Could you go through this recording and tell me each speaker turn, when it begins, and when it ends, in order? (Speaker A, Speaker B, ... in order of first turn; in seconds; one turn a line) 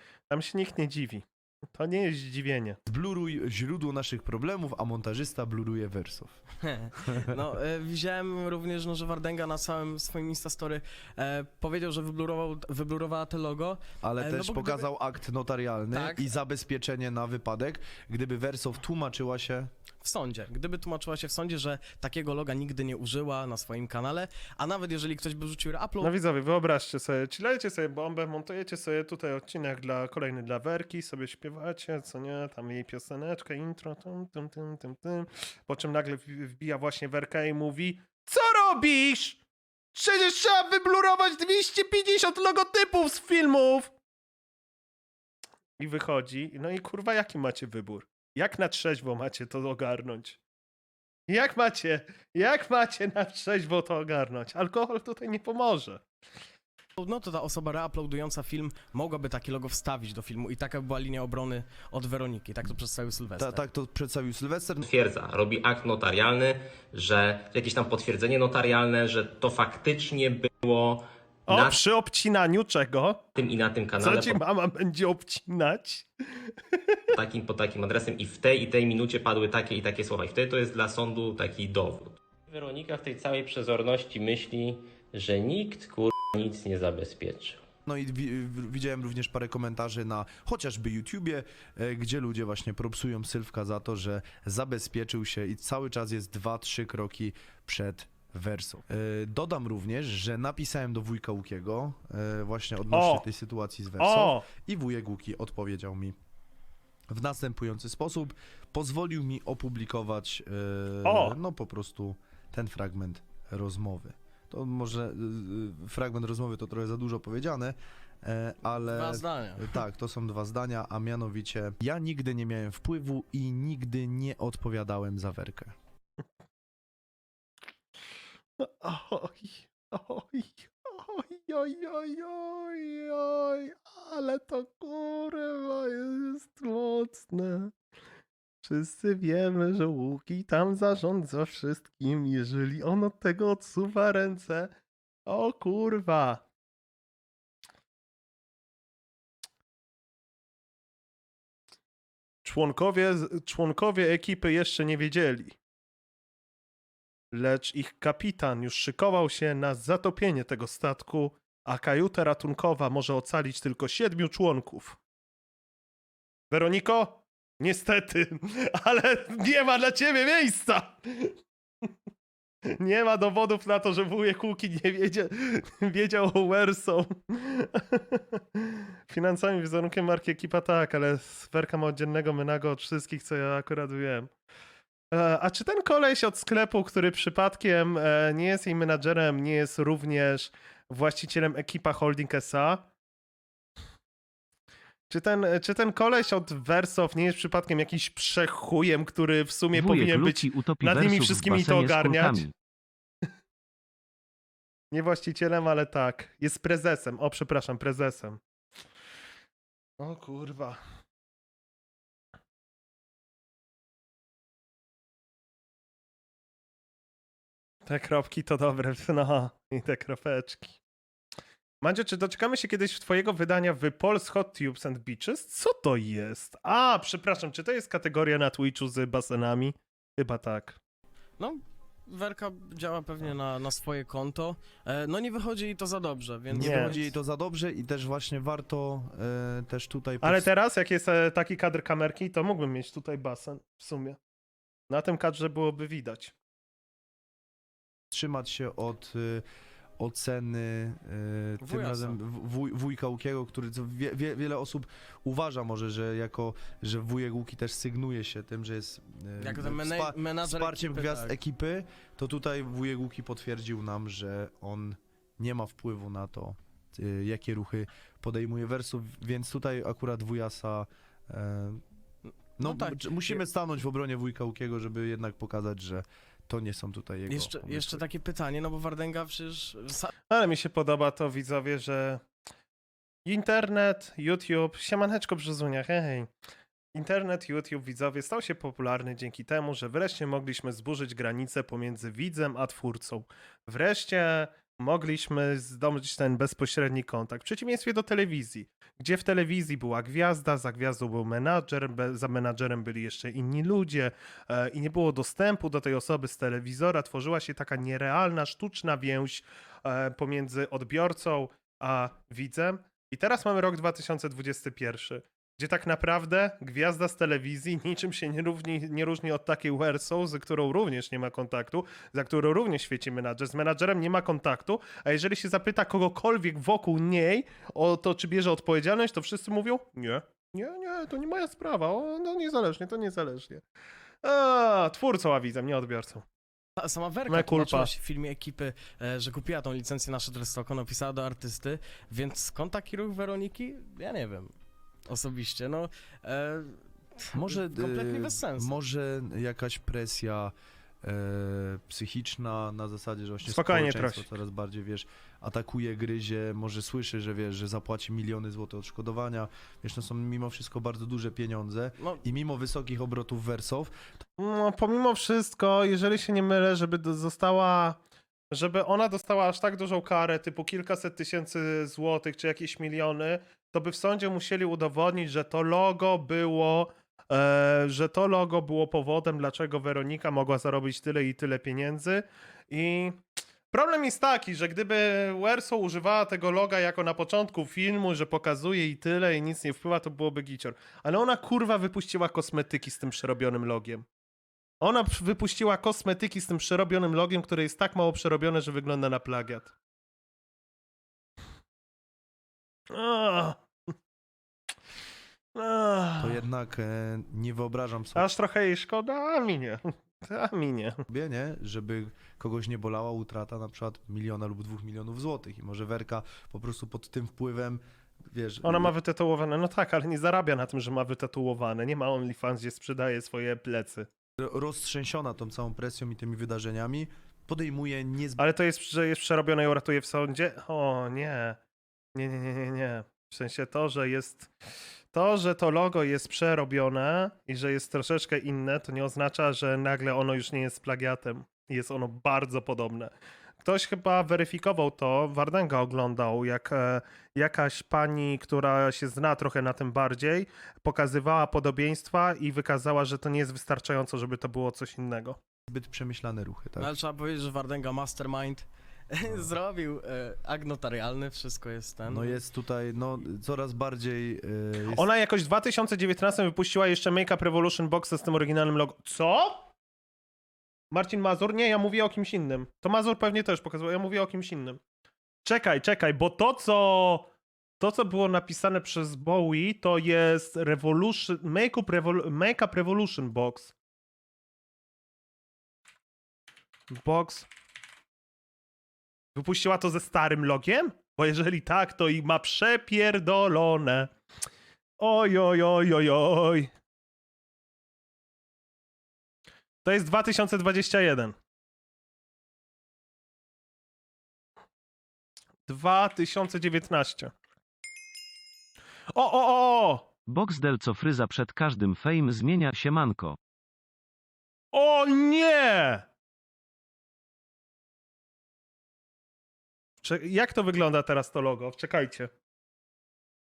Speaker A: 0.3-2.8
Speaker B: 2.9-6.4
Speaker C: 6.7-14.9
Speaker B: 14.0-19.7
Speaker C: 15.9-16.3
Speaker C: 20.0-26.1
Speaker A: 26.0-39.4
Speaker A: 39.9-43.9
Speaker A: 45.8-50.4
Speaker A: 51.3-56.0
Speaker C: 57.0-63.6
Speaker B: 63.4-64.8
Speaker D: 64.8-71.8
Speaker A: 71.5-73.2
Speaker D: 73.4-74.4
Speaker A: 73.9-77.1
Speaker D: 77.1-87.6
Speaker B: 87.8-106.2
Speaker A: 102.9-103.2
Speaker A: 104.0-104.5
Speaker B: 107.1-125.7
Speaker A: 111.0-111.4
Speaker C: 118.8-119.8
Speaker A: 128.6-137.7
Speaker A: 138.6-144.7
Speaker A: 145.2-146.4
Speaker A: 152.4-155.6
Speaker A: 157.3-165.0
Speaker A: 166.5-171.4
Speaker A: 172.7-184.3
Speaker A: 185.1-192.8
Speaker A: 195.1-202.5
Speaker E: 199.7-202.5
Speaker A: 204.9-208.4
Speaker A: 210.0-210.8
Speaker A: 217.8-220.8
Speaker A: 221.8-230.8
Speaker C: 231.4-237.2
Speaker B: 236.5-240.5
Speaker A: 236.6-236.9
Speaker A: 240.2-244.2
Speaker A: 244.9-246.3
Speaker B: 248.1-249.4
Speaker B: 250.0-271.8
Speaker C: 251.6-252.2
Speaker C: 259.4-261.4
Speaker B: 272.6-278.0
Speaker C: 272.6-273.4
Speaker C: 277.3-280.1
Speaker A: 280.3-282.2
Speaker A: 283.2-286.3
Speaker A: 286.9-333.6
Speaker A: 334.2-336.2
Speaker C: 336.8-344.5
Speaker A: 337.3-337.9
Speaker C: 345.1-348.7
Speaker B: 347.3-363.9
Speaker A: 353.4-354.4
Speaker A: 364.4-368.0
Speaker A: 368.5-383.2
Speaker A: 383.7-394.0
Speaker A: 394.8-399.7
Speaker A: 402.9-403.6
Speaker A: 405.5-406.4
Speaker B: 406.2-408.3
Speaker A: 408.1-411.0
Speaker B: 411.1-418.9
Speaker A: 418.6-424.1
Speaker B: 424.4-428.4
Speaker A: 428.4-431.6
Speaker A: 432.1-434.5
Speaker A: 435.1-455.4
Speaker B: 455.7-456.9
Speaker C: 456.8-462.4
Speaker B: 462.1-465.1
Speaker A: 464.9-469.7
Speaker A: 470.9-474.8
Speaker A: 475.4-477.3
Speaker A: 477.8-483.7
Speaker A: 486.9-487.5
Speaker A: 489.3-494.1
Speaker A: 495.0-496.7
Speaker A: 499.8-501.3
Speaker A: 505.7-507.3
Speaker A: 509.1-510.1
Speaker E: 510.3-513.4
Speaker A: 514.7-516.0
Speaker A: 520.0-522.3